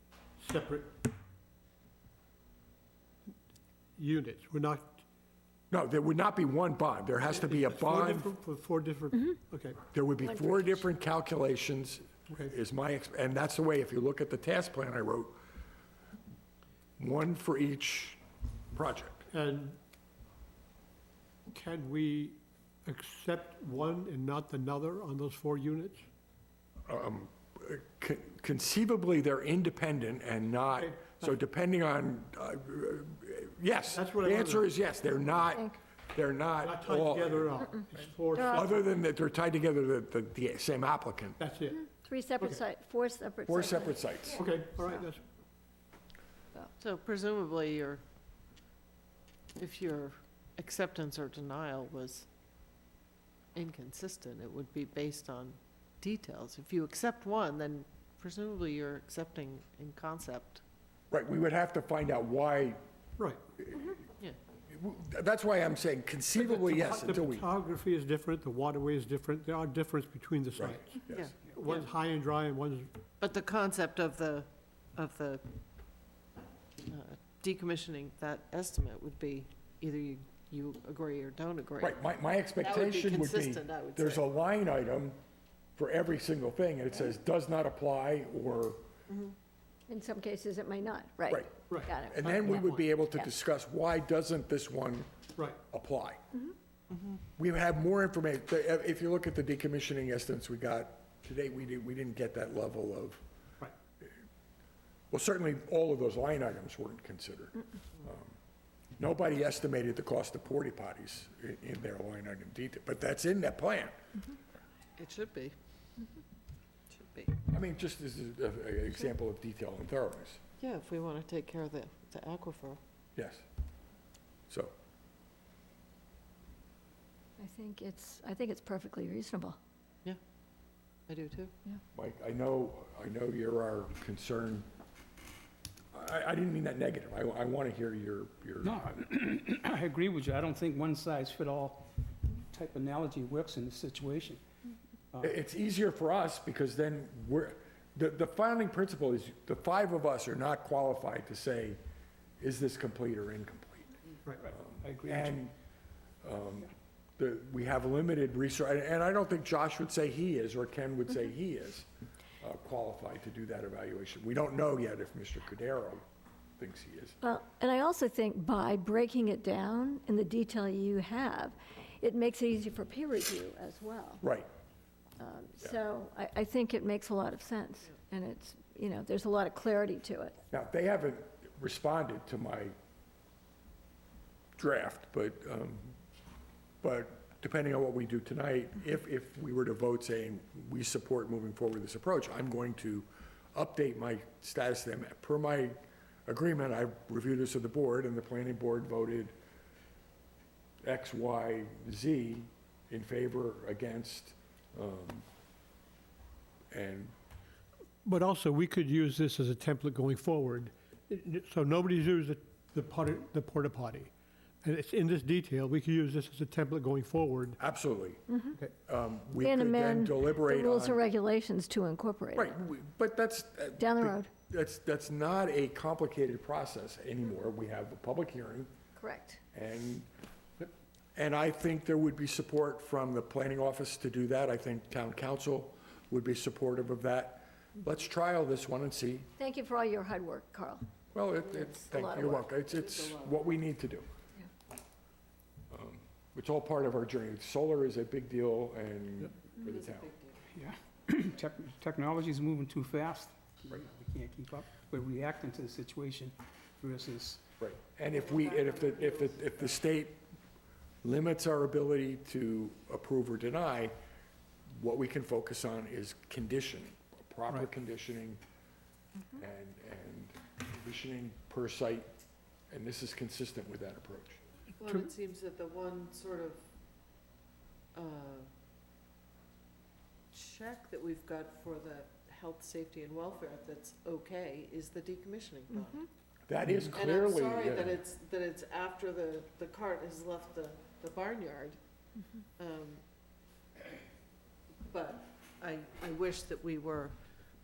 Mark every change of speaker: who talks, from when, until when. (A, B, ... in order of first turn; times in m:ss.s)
0:00.4-0:01.0 A
0:04.0-0:05.0 A
0:05.7-0:08.3 B
0:07.3-0:09.8 A
0:09.9-0:15.4 B
0:10.2-0:10.8 C
0:17.0-0:18.2 B
0:18.7-0:19.3 B
0:19.3-0:19.8 A
0:21.5-0:26.1 A
0:26.9-0:37.5 B
0:30.8-0:31.3 A
0:33.9-0:34.7 A
0:36.6-0:38.8 A
0:38.3-0:38.7 C
0:38.4-0:41.4 B
0:41.4-0:41.9 A
0:41.7-0:44.0 C
0:43.5-0:44.5 B
0:44.4-0:45.2 A
0:46.8-0:48.0 D
0:49.6-0:52.3 D
0:53.6-1:00.6 D
1:01.1-1:02.8 B
1:03.6-1:04.0 B
1:04.7-1:07.5 B
1:06.4-1:11.0 A
1:10.6-1:11.4 B
1:11.1-1:11.9 D
1:11.5-1:12.9 A
1:13.2-1:15.4 D
1:16.8-1:22.0 D
1:21.8-1:25.2 B
1:22.6-1:24.3 D
1:25.8-1:28.8 B
1:29.1-1:29.3 D
1:29.9-1:33.3 C
1:31.3-1:35.1 B
1:31.7-1:32.0 A
1:35.7-1:36.2 B
1:36.9-1:37.2 D
1:37.4-1:43.2 B
1:45.1-1:48.3 B
1:49.0-1:53.9 B
1:55.0-1:55.6 D
1:56.9-1:57.4 D
1:57.5-2:00.4 B
2:00.6-2:02.8 D
2:03.2-2:03.4 B
2:07.4-2:09.6 C
2:11.1-2:11.5 D
2:12.0-2:14.7 B
2:15.9-2:18.8 B
2:18.6-2:21.9 E
2:22.5-2:24.4 E
2:25.2-2:31.8 B
2:32.4-2:33.9 B
2:34.4-2:35.4 E
2:34.5-2:35.5 B
2:36.2-2:41.9 B
2:42.4-2:46.0 B
2:46.6-2:47.2 B
2:47.2-2:54.2 C
2:54.2-2:54.5 B
2:55.2-3:00.4 C
3:00.5-3:02.7 B
3:04.6-3:06.0 B
3:06.8-3:19.3 B
3:20.8-3:25.3 B
3:26.7-3:27.1 B
3:28.0-3:37.6 A
3:37.6-3:38.2 B
3:38.3-3:38.6 C
3:38.9-3:41.0 B
3:39.4-3:42.5 C
3:42.4-3:48.7 B
3:43.8-3:44.3 C
3:49.0-3:49.4 C
3:49.5-3:50.1 B
3:51.2-3:59.3 B
3:59.4-4:00.8 C
4:01.1-4:04.1 B
4:01.5-4:02.5 C
4:02.4-4:03.5 D
4:05.7-4:10.1 B
4:09.6-4:10.4 D
4:10.5-4:17.4 E
4:17.6-4:20.2 B
4:18.1-4:19.8 D
4:21.0-4:23.9 B
4:24.7-4:28.4 B
4:29.4-4:32.1 B
4:32.7-4:34.4 B
4:34.8-4:36.6 D
4:37.9-4:38.5 D
4:40.3-4:46.1 D
4:45.7-4:46.0 C
4:46.5-4:48.0 B
4:46.6-4:47.0 A
4:46.9-4:51.8 D
4:52.6-4:53.0 D
4:54.8-4:57.2 D